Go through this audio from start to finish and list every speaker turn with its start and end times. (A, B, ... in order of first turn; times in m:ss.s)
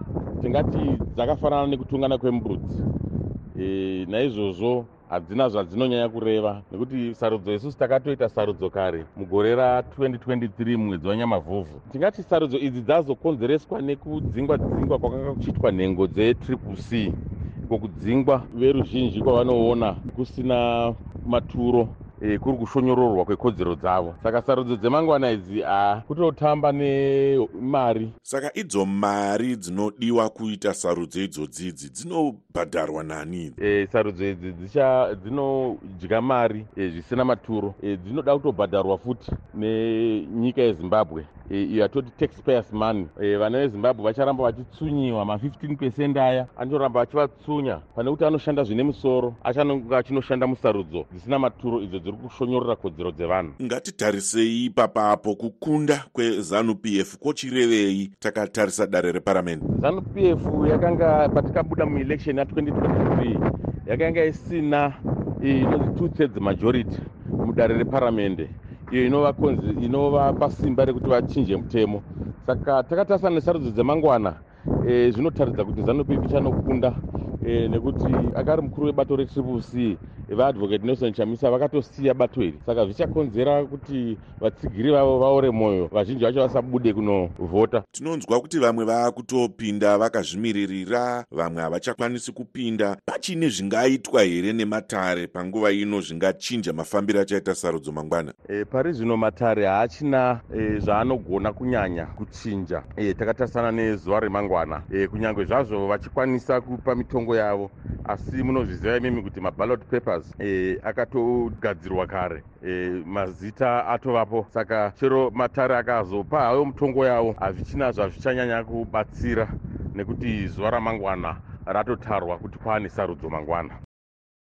0:00.4-0:02.8 A
0:03.6-0:17.2 A
0:17.7-0:28.1 A
0:28.2-0:33.6 B
0:33.6-0:53.6 A
0:53.6-0:59.6 B
0:59.7-1:27.8 A
1:27.9-1:38.4 B
1:38.5-2:03.8 A